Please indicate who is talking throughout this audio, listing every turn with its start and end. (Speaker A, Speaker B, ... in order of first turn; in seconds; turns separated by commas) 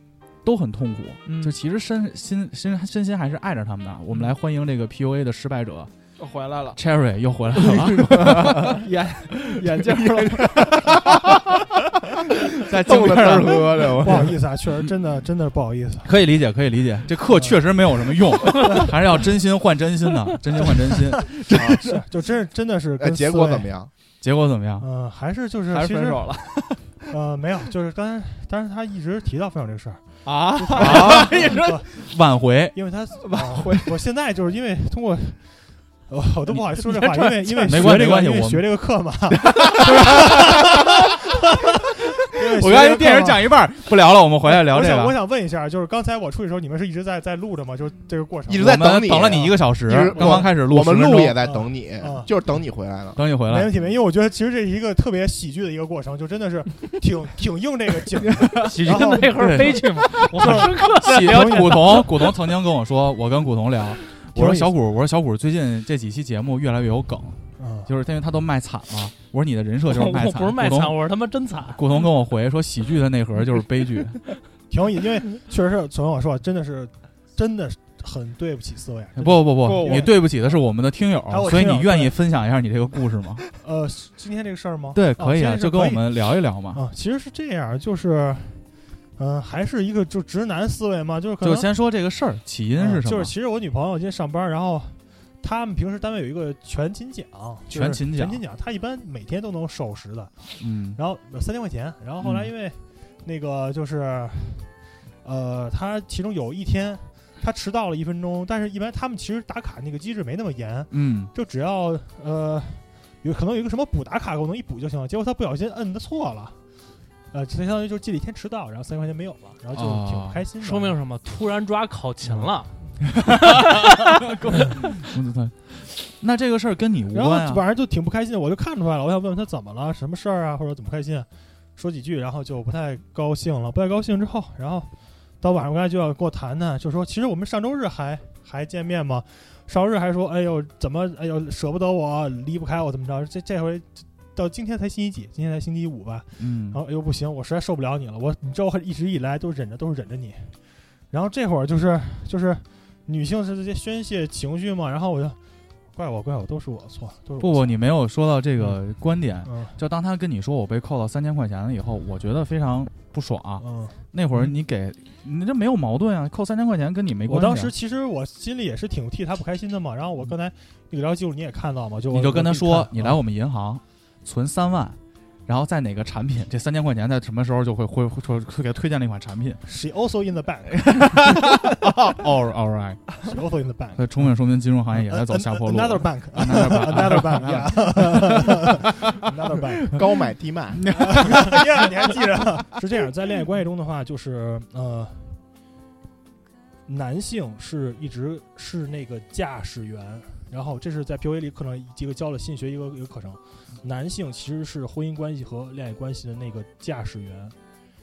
Speaker A: 0.4-5.9, Speaker B: 1.2-1.6, Speaker B: 6.2-6.8, Speaker A: 6.8-8.8, Speaker C: 7.8-8.7, Speaker B: 8.6-10.9, Speaker C: 10.4-11.6, Speaker A: 12.6-14.2, Speaker C: 12.6-14.4, Speaker D: 14.0-16.1, Speaker A: 16.0-21.9, Speaker D: 17.3-17.8, Speaker D: 21.3-23.7, Speaker C: 23.0-23.9, Speaker A: 24.2-24.9, Speaker D: 24.8-32.1, Speaker B: 25.7-27.0, Speaker B: 30.2-31.6, Speaker A: 30.8-32.8, Speaker D: 32.7-43.6, Speaker B: 33.2-34.0, Speaker E: 36.8-37.7, Speaker A: 37.6-38.7, Speaker A: 39.3-40.8, Speaker A: 42.5-45.1, Speaker D: 44.4-49.5, Speaker C: 48.5-53.2, Speaker A: 48.5-51.4, Speaker D: 50.1-50.5, Speaker D: 51.4-52.3, Speaker A: 53.1-53.7, Speaker D: 53.5-59.7, Speaker A: 58.4-71.0, Speaker E: 58.6-62.1, Speaker D: 60.4-62.0, Speaker D: 64.3-64.7, Speaker D: 67.6-67.9, Speaker E: 69.8-71.8, Speaker A: 71.7-74.2, Speaker D: 74.7-80.3, Speaker A: 79.2-83.4, Speaker B: 79.6-80.1, Speaker D: 81.3-82.1, Speaker D: 83.6-91.7, Speaker A: 84.9-86.8, Speaker A: 91.4-93.3, Speaker D: 92.8-116.6, Speaker A: 97.7-98.4, Speaker A: 100.6-101.0, Speaker A: 102.2-102.5, Speaker A: 110.9-111.3, Speaker D: 117.3-121.0, Speaker A: 119.7-120.4, Speaker E: 120.6-124.0, Speaker A: 123.2-127.6, Speaker D: 127.1-155.4, Speaker A: 146.4-146.8, Speaker D: 155.9-157.8, Speaker A: 157.4-167.7, Speaker D: 159.4-159.8, Speaker D: 163.6-164.0, Speaker D: 167.2-173.2, Speaker A: 172.1-179.6, Speaker D: 179.6-181.6, Speaker A: 180.7-183.1, Speaker D: 183.2-184.3, Speaker A: 184.0-188.7, Speaker D: 184.9-190.0, Speaker C: 189.9-190.8, Speaker A: 190.7-191.4, Speaker D: 190.9-195.4, Speaker D: 196.8-207.6